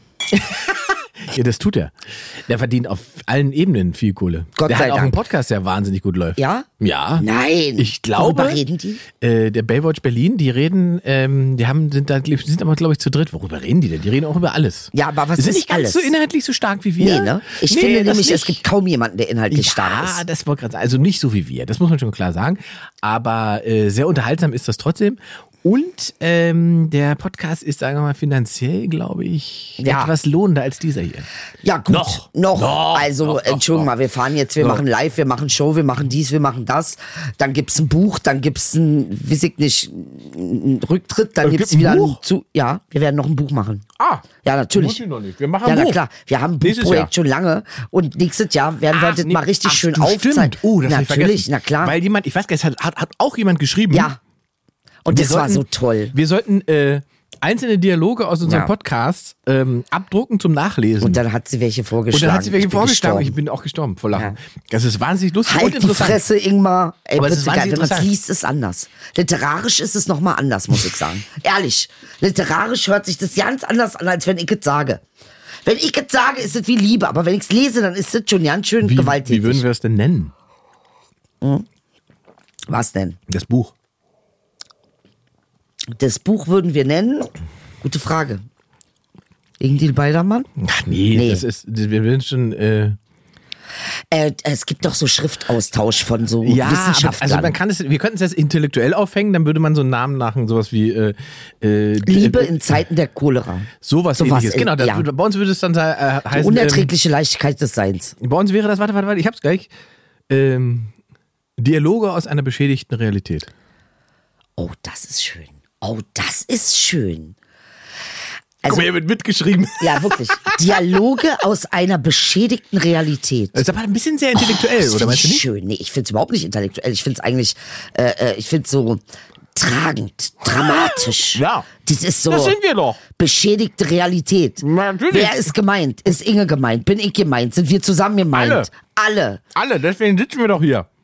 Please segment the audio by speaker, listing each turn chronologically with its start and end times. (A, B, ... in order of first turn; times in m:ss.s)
0:00.3-0:07.2 A
0:04.6-0:05.2 B
0:06.4-0:06.7 B
0:07.2-0:09.0 B
0:07.8-0:08.6 A
0:09.2-0:18.6 A
0:14.9-0:16.1 B
0:17.0-0:20.2 B
0:19.5-0:31.3 A
0:29.8-0:30.1 B
0:31.6-0:43.8 B
0:31.9-0:33.9 A
0:41.4-0:42.2 A
0:44.0-0:46.0 A
0:44.4-0:45.0 B
0:45.6-0:52.0 B
0:46.6-0:47.1 A
0:48.9-0:54.1 A
0:53.9-0:54.2 B
0:55.0-0:56.1 B
0:55.1-1:01.2 A
0:58.4-0:58.7 B
1:01.0-1:03.4 B
1:02.1-1:06.2 A
1:05.4-1:15.0 B
1:07.2-1:08.1 A
1:15.6-1:19.6 B
1:18.8-1:20.3 A
1:21.4-1:21.6 B
1:22.7-1:23.2 B
1:23.3-1:23.7 A
1:25.9-1:28.4 B
1:29.6-1:30.5 B
1:30.6-1:33.0 A
1:31.1-1:31.4 B
1:34.1-1:37.6 B
1:36.4-1:42.6 A
1:42.0-1:45.1 B
1:43.8-1:46.9 A
1:46.3-1:48.1 B
1:48.2-1:49.7 A
1:50.3-1:50.9 A
1:51.6-1:53.5 A
1:54.6-1:57.3 B
1:58.6-2:00.8 A
1:59.8-2:03.6 B
2:03.5-2:05.4 A
2:04.4-2:09.0 B
2:09.5-2:12.6 B
2:11.3-2:11.7 A
2:12.3-2:13.0 A
2:13.1-2:19.4 B
2:14.6-2:15.5 A
2:18.3-2:18.7 A
2:19.5-2:20.9 A